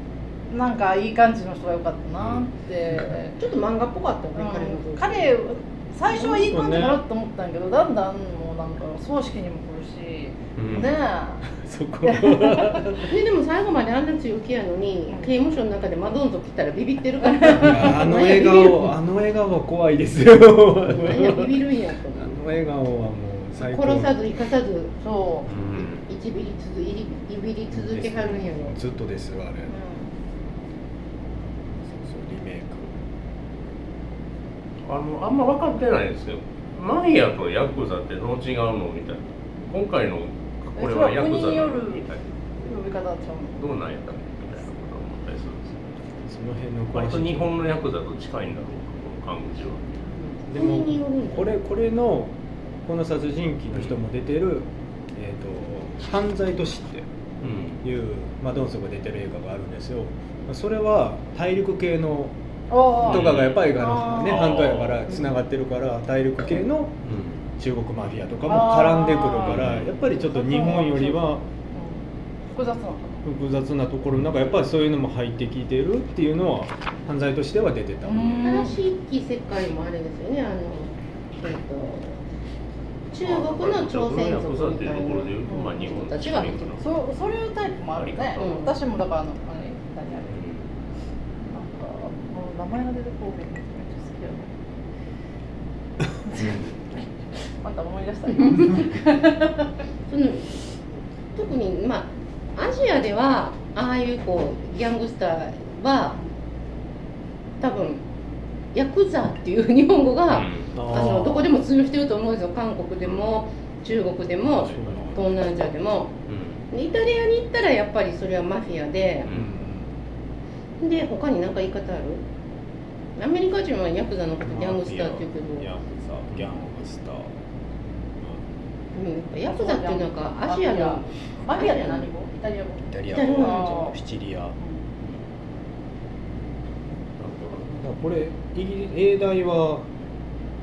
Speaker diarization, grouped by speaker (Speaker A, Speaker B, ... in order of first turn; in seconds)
Speaker A: 0.5-3.4, 4.3-11.5, 12.0-13.0, 15.1-15.3, 17.2-18.1, 25.0-25.5, 29.8-30.0, 40.8-42.0, 42.6-43.6, 62.7-64.5, 68.5-73.2, 78.0-78.8, 86.8-90.4, 91.5-94.5, 96.3-97.0, 97.5-99.7, 129.5-134.0
Speaker B: 2.2-2.5, 10.6-10.9, 25.5-26.1, 34.9-42.3, 43.6-46.0, 46.9-50.1, 57.4-57.8, 63.0-65.2, 67.0-67.5, 69.5-70.0, 74.1-74.5, 78.4-78.7, 83.2-86.9, 88.0-88.7, 90.3-90.7, 96.4-96.7, 110.3-110.8, 113.0-113.3, 116.3-116.7, 119.2-119.5, 137.2-137.8
Speaker C: 3.4-5.3, 13.1-18.9, 20.9-22.3, 23.6-24.9, 25.8-28.8, 50.1-51.5, 78.4-82.2, 83.1-86.8, 88.4-88.7, 100.1-100.6, 101.3-106.2, 107.6-108.0, 108.7-116.2, 116.7-119.3, 120.8-122.2, 123.2-125.7, 128.9-132.1, 133.1-133.9
Speaker D: 6.1-7.0, 11.5-13.2, 17.5-24.2, 27.7-29.7, 31.8-32.9, 46.3-47.5, 50.5-57.1, 57.8-62.4, 63.0-67.0, 67.6-71.4, 73.2-78.7, 110.7-111.5, 114.5-115.3, 119.3-119.9, 124.4-127.3, 132.9-134.6, 137.7-139.9